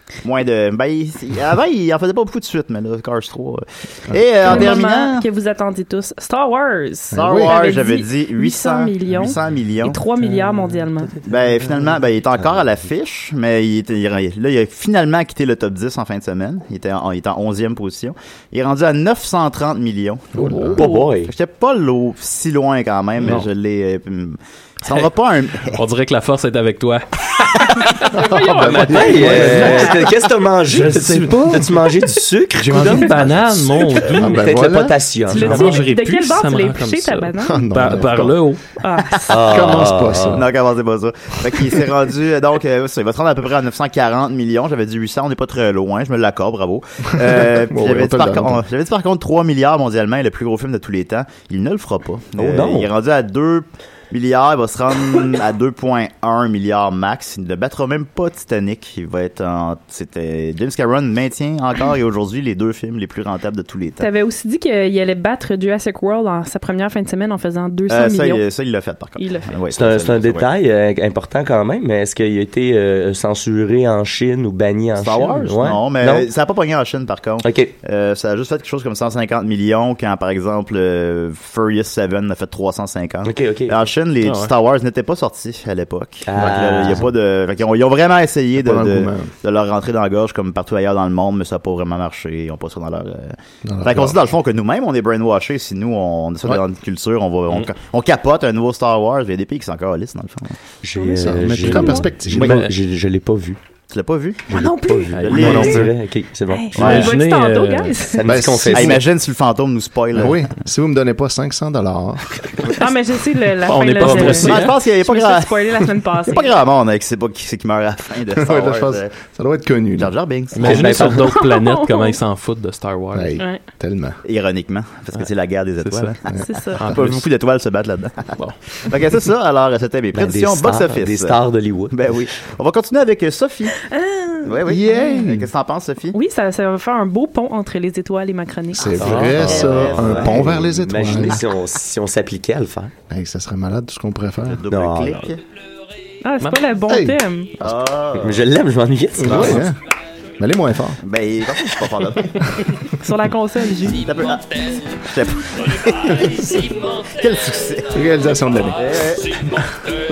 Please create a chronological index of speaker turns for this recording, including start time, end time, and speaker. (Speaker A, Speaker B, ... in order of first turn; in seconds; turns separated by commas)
Speaker A: 0.2-5.2, Speaker B: 4.1-4.6, Speaker C: 4.4-11.1, Speaker B: 7.1-7.5, Speaker A: 7.1-10.0, Speaker D: 11.2-12.6, Speaker A: 11.2-25.8, Speaker B: 20.3-20.8, Speaker D: 20.8-21.3, Speaker E: 25.7-30.1, Speaker B: 28.1-30.1, Speaker D: 28.8-35.8, Speaker E: 30.7-31.9, Speaker E: 32.6-34.5, Speaker B: 34.2-35.0, Speaker C: 35.3-37.9, Speaker E: 35.3-38.6, Speaker B: 37.4-38.4, Speaker C: 38.8-39.3, Speaker D: 39.3-40.4, Speaker B: 39.3-40.5, Speaker A: 40.3-64.1, Speaker B: 47.2-48.6, Speaker D: 52.4-52.9, Speaker C: 64.0-68.4, Speaker A: 67.9-70.5, Speaker C: 69.2-69.5, Speaker D: 69.7-76.3, Speaker A: 75.0-100.5, Speaker D: 77.4-77.7, Speaker D: 83.2-83.8, Speaker E: 84.2-84.5, Speaker D: 86.2-87.1, Speaker B: 86.4-87.0, Speaker B: 88.6-89.3, Speaker B: 93.6-94.2, Speaker D: 100.8-103.6, Speaker C: 101.0-102.0, Speaker B: 101.2-102.6, Speaker A: 102.3-102.7, Speaker A: 103.9-105.9, Speaker C: 104.5-105.6, Speaker D: 104.5-107.0, Speaker E: 105.1-105.8, Speaker B: 105.3-105.9, Speaker C: 106.5-108.2, Speaker E: 106.7-108.0, Speaker A: 106.7-107.1, Speaker D: 108.1-109.0, Speaker B: 108.2-109.0, Speaker A: 108.7-110.5, Speaker B: 110.1-112.7, Speaker C: 112.8-116.5, Speaker E: 113.6-114.8, Speaker D: 114.0-114.7, Speaker A: 114.4-119.1, Speaker B: 118.3-120.1, Speaker A: 120.0-121.1, Speaker E: 120.5-123.4, Speaker D: 120.6-121.3, Speaker C: 121.1-122.2, Speaker B: 123.1-124.2, Speaker A: 124.2-131.4, Speaker E: 125.8-126.1, Speaker B: 126.3-126.9, Speaker C: 126.4-126.8, Speaker E: 126.8-127.2, Speaker D: 130.1-131.9, Speaker A: 131.9-133.8, Speaker C: 133.8-135.3, Speaker A: 134.4-136.2, Speaker B: 134.7-135.5, Speaker C: 136.1-139.0, Speaker B: 138.7-141.4, Speaker D: 139.0-142.9, Speaker A: 139.0-140.6, Speaker B: 143.1-144.6, Speaker A: 144.4-145.4, Speaker D: 144.7-145.3, Speaker C: 146.2-147.5, Speaker B: 146.9-147.2, Speaker A: 147.6-148.4, Speaker D: 148.2-149.7, Speaker B: 149.2-149.8, Speaker A: 149.3-149.6, Speaker B: 150.4-151.0, Speaker A: 151.0-152.7, Speaker C: 152.9-154.3, Speaker A: 154.0-158.0, Speaker B: 157.9-158.8, Speaker A: 158.7-159.4